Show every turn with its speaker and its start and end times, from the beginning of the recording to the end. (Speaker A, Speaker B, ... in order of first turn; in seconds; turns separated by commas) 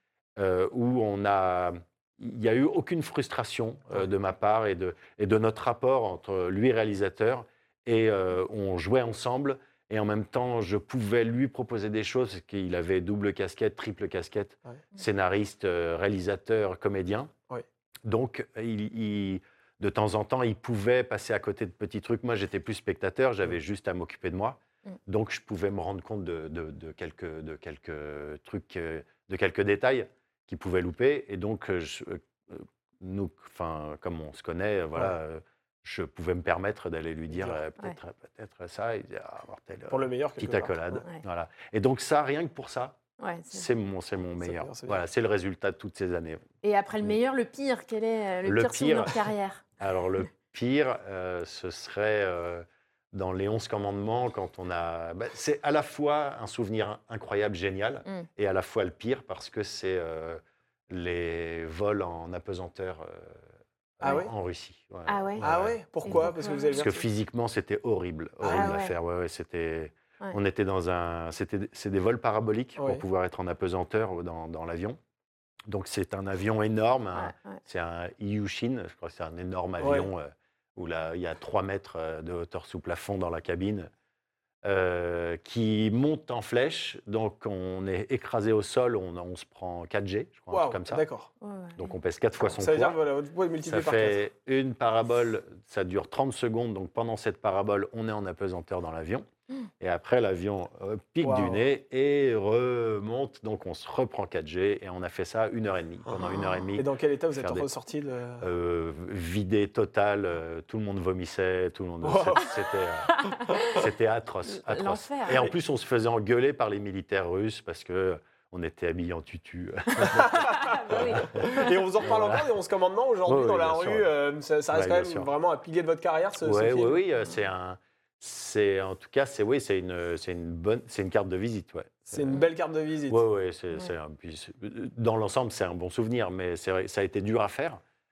Speaker A: 0.4-17.3, Speaker A: 18.1-43.0, Speaker B: 39.9-41.0, Speaker C: 43.2-43.6, Speaker A: 43.5-46.4, Speaker B: 44.4-45.0, Speaker C: 46.6-49.6, Speaker A: 48.5-49.2, Speaker A: 49.8-63.4, Speaker A: 64.0-75.0, Speaker B: 64.0-64.3, Speaker C: 65.1-65.5, Speaker B: 65.4-67.0, Speaker C: 66.0-66.8, Speaker B: 68.4-68.8, Speaker C: 68.5-68.9, Speaker B: 72.8-73.0, Speaker A: 75.7-83.9, Speaker C: 77.2-77.6, Speaker B: 79.8-80.1, Speaker A: 84.6-91.0, Speaker B: 90.5-91.3, Speaker C: 91.4-91.8, Speaker A: 91.8-93.0, Speaker B: 92.6-94.2, Speaker A: 93.7-99.3, Speaker A: 99.8-107.7, Speaker B: 101.2-101.6, Speaker B: 106.1-108.5, Speaker A: 108.4-122.5, Speaker B: 112.0-112.5, Speaker C: 113.1-113.7, Speaker C: 114.5-115.4, Speaker B: 120.1-127.0, Speaker C: 120.4-121.7, Speaker A: 123.3-124.1, Speaker A: 124.7-125.3, Speaker A: 126.4-132.4, Speaker B: 132.1-133.2, Speaker A: 133.1-137.8